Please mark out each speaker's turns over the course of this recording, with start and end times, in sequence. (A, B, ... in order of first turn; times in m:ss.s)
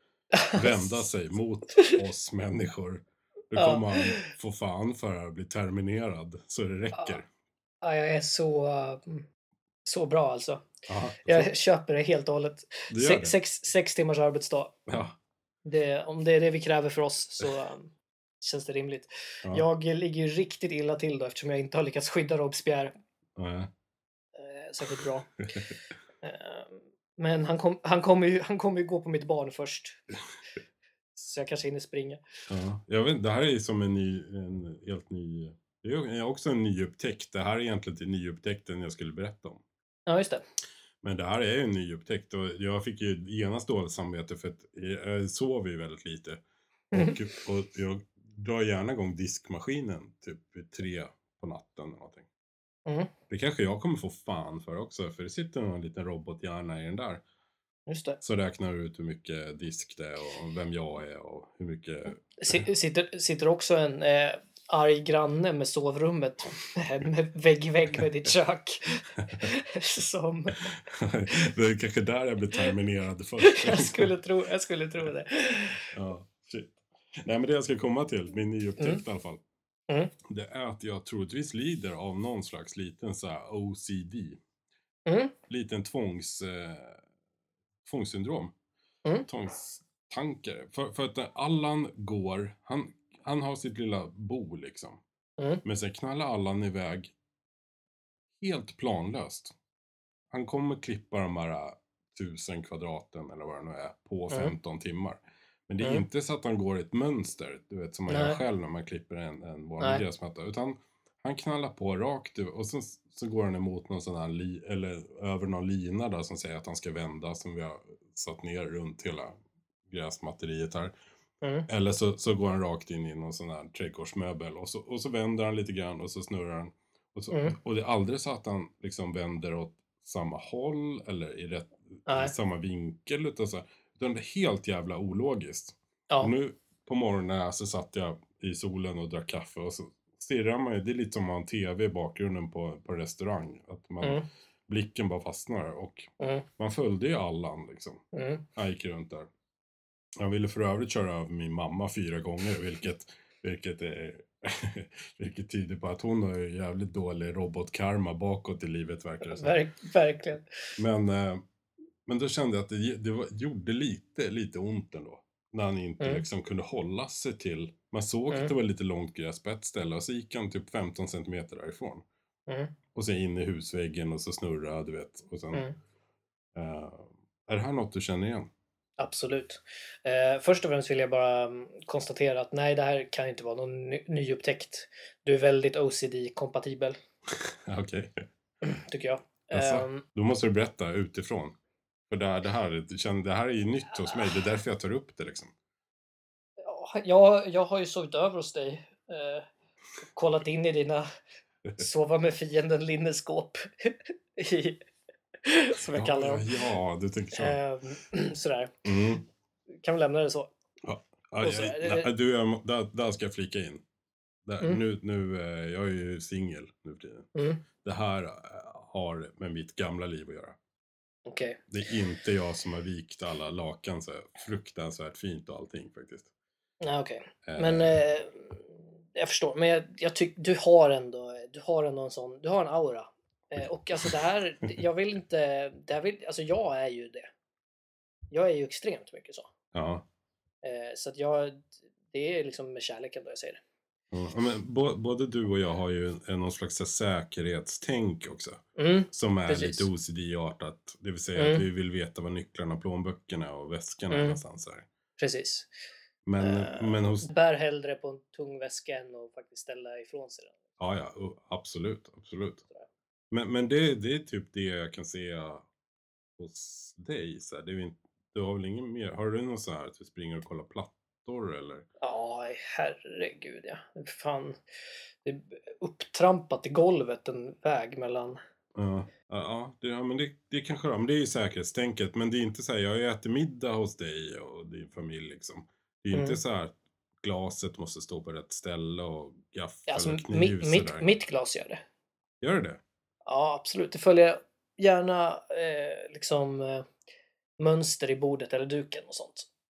0:00.4-0:01.0 A
0:00.5-0:07.3 B
0:03.5-0:04.2 A
0:06.9-0:07.2 A
0:07.8-0:09.2 A
0:09.8-0:10.7 A
0:10.9-0:11.5 B
0:11.2-0:14.8 A
0:12.9-0:13.4 B
0:14.9-0:15.1 B
0:15.6-0:22.9 A
0:23.4-0:23.7 B
0:24.3-0:25.3 A
0:26.2-0:30.0 A
0:31.1-0:32.2 A
0:32.5-0:39.6 B
0:40.1-0:40.4 A
0:41.0-0:52.2 B
0:52.8-0:53.1 A
0:53.3-0:57.2 B
0:57.9-0:58.2 A
0:58.2-1:02.6 B
1:02.4-1:10.7 A
1:10.7-1:14.1 B
1:13.4-1:15.9 A
1:15.9-1:19.4 B
1:20.2-1:24.4 B
1:25.0-1:25.3 A
1:25.5-1:27.0 B
1:27.8-1:28.5 B
1:29.3-1:35.0 B
1:35.6-1:37.1 B
1:38.4-1:39.5 B
1:40.3-1:59.4 B
1:48.1-1:48.4 A
1:59.9-2:00.9 B
2:01.4-2:01.7 A
2:01.7-2:28.0 B
2:07.3-2:07.6 A
2:12.1-2:12.3 A
2:24.0-2:24.3 A
2:26.2-2:26.4 A
2:28.1-2:28.4 A
2:28.6-2:29.3 B
2:30.2-2:39.6 B
2:39.2-2:40.4 A
2:40.8-2:41.4 B
2:42.0-2:52.0 B
2:52.5-2:52.7 A
2:52.9-2:55.6 B
2:56.5-2:58.5 B
2:59.0-3:07.0 A
3:07.3-3:08.2 B
3:08.7-3:10.0 A
3:09.5-3:11.5 B
3:12.1-3:15.5 B
3:16.6-3:19.4 A
3:20.0-3:21.1 A
3:21.8-3:24.8 A
3:25.4-3:26.6 A
3:25.8-3:27.6 B
3:27.3-3:28.8 A
3:28.8-3:29.2 B
3:29.8-3:30.5 A
3:30.8-3:33.8 B
3:31.4-3:32.1 A
3:34.4-3:40.6 B
3:37.3-3:37.6 A
3:41.2-3:41.6 A
3:41.7-3:46.3 B
3:46.8-3:57.3 A
3:47.4-3:48.0 B
3:58.3-3:59.5 A
3:59.7-4:00.0 B
4:00.6-4:03.6 A
4:04.1-4:14.8 B
4:08.8-4:09.9 A
4:11.4-4:11.6 A
4:14.1-4:14.4 A
4:15.2-4:15.7 A
4:16.2-4:17.3 B
4:16.4-4:20.6 A
4:20.8-4:22.6 B
4:23.3-4:25.6 B
4:26.4-4:31.8 B
4:32.0-4:34.6 A
4:35.2-4:38.4 A
4:38.7-4:51.1 B
4:46.1-4:46.4 A
4:49.9-4:51.8 A
4:52.4-4:52.8 B
4:53.3-4:56.9 A
4:57.6-4:59.5 A